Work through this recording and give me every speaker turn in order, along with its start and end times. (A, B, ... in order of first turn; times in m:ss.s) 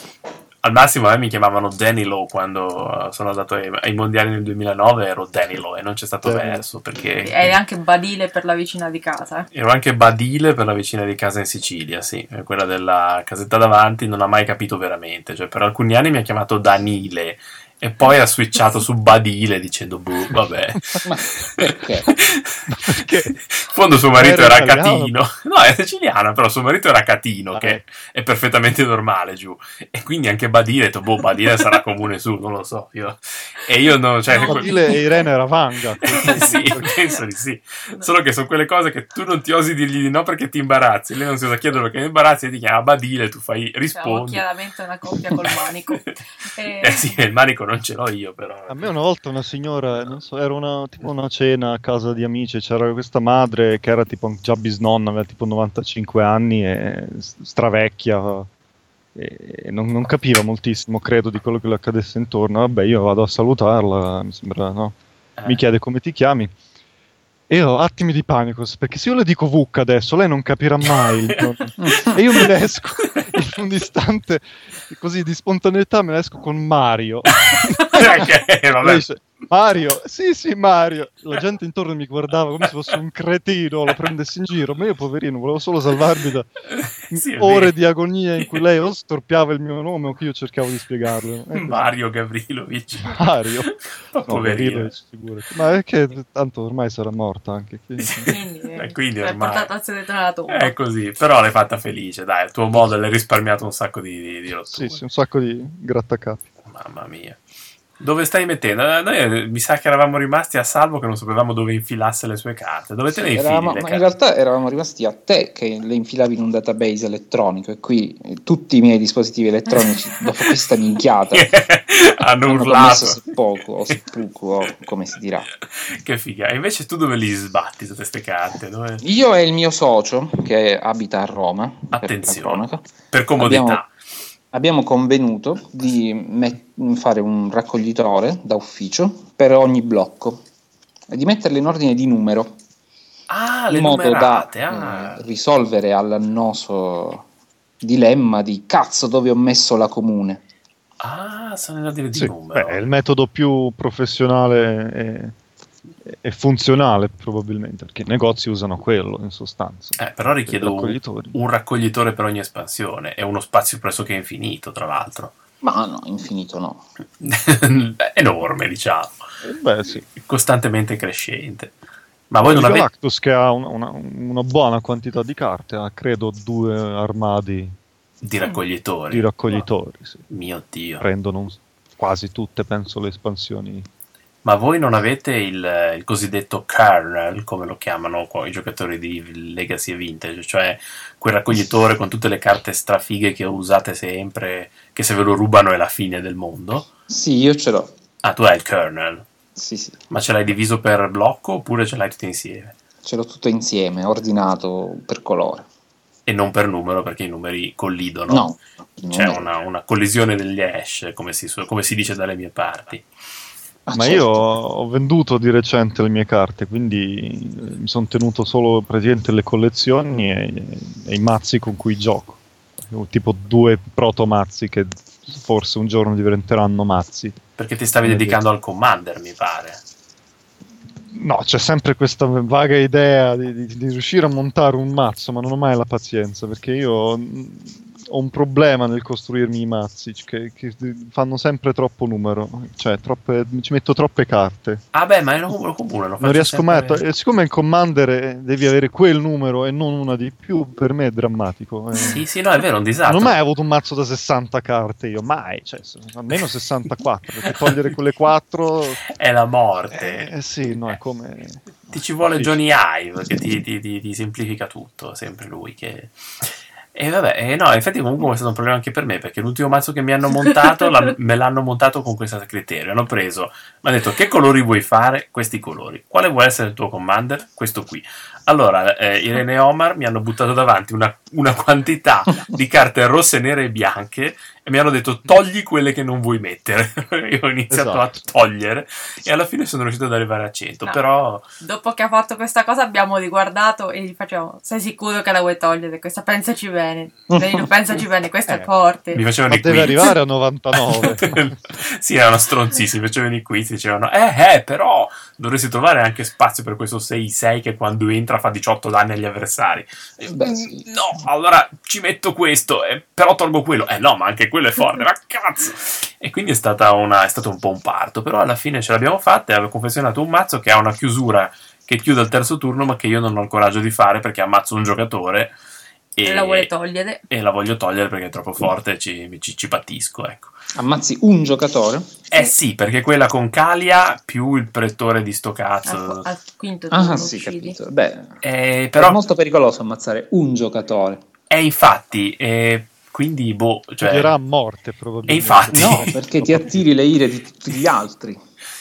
0:00.6-0:07.6 A
0:06.2-0:06.6 B
0:07.2-0:09.5 C
0:09.5-0:35.0 A
0:21.0-0:22.1 D
0:22.7-0:23.3 B
0:24.2-0:25.2 B
0:27.5-0:27.8 B
0:34.3-0:35.3 C
0:34.3-0:36.9 B
0:36.0-0:44.4 A
0:36.1-0:36.9 C
0:44.0-0:47.2 C
0:46.8-0:48.9 A
0:48.7-0:58.5 B
0:59.2-1:06.5 B
1:05.4-1:05.6 A
1:07.5-1:18.3 B
1:11.0-1:11.4 A
1:11.8-1:12.1 D
1:17.5-1:19.1 A
1:18.8-1:26.5 B
1:26.7-1:27.8 A
1:27.1-1:31.8 B
1:31.5-1:34.9 A
1:33.0-1:33.7 B
1:34.2-1:38.3 B
1:38.0-1:39.7 A
1:38.3-1:40.7 C
1:40.5-1:45.0 A
1:44.7-1:46.4 B
1:46.7-1:47.4 A
1:48.0-1:54.1 A
1:53.1-2:01.5 D
2:01.3-2:03.3 A
2:02.5-2:05.5 D
2:05.6-2:09.0 A
2:09.0-2:12.8 D
2:11.9-2:13.9 A
2:13.4-2:13.8 D
2:14.5-2:20.4 D
2:21.1-2:22.6 D
2:23.3-2:25.2 A
2:23.7-2:27.2 D
2:27.8-2:30.4 D
2:31.0-2:32.8 A
2:32.2-2:35.4 B
2:36.0-2:41.4 B
2:40.0-2:45.3 A
2:45.6-2:46.8 D
2:47.2-2:49.2 A
2:49.4-2:50.0 B
2:50.0-2:51.7 A
2:52.3-2:52.9 A
2:52.4-2:57.8 B
2:58.2-2:59.6 A
2:59.1-3:00.3 B
3:00.3-3:01.0 A
3:01.0-3:03.9 B
3:04.4-3:16.9 A
3:17.1-3:17.9 D
3:18.2-3:19.2 A
3:19.6-3:20.0 D
3:20.1-3:22.8 A
3:23.0-3:25.7 D
3:26.3-3:28.5 A
3:28.3-3:29.5 D
3:29.1-3:33.1 A
3:33.9-3:34.6 D
3:33.9-3:47.4 B
3:47.6-3:49.8 A
3:48.0-3:48.4 B
3:51.1-4:04.8 B
4:04.9-4:07.0 A
4:06.2-4:12.2 B
4:12.0-4:13.4 A
4:13.1-4:19.0 B
4:17.5-4:17.8 A
4:19.1-4:20.3 A
4:19.9-4:22.6 B
4:21.9-4:51.5 A
4:47.7-4:48.2 B
4:51.6-4:59.2 C
4:57.3-4:57.6 D
4:59.1-5:00.1 A
4:59.5-5:01.6 B
5:00.8-5:25.6 A
5:10.3-5:10.8 D
5:26.2-5:26.7 A
5:26.2-5:27.2 C
5:27.3-5:30.5 A
5:30.8-5:32.1 D
5:32.3-5:36.3 A
5:35.9-5:37.8 C
5:36.9-5:38.4 D
5:38.4-5:39.2 A
5:39.0-5:41.2 D
5:41.5-5:44.4 A
5:44.0-5:46.8 B
5:45.3-5:46.2 A
5:45.7-5:48.4 D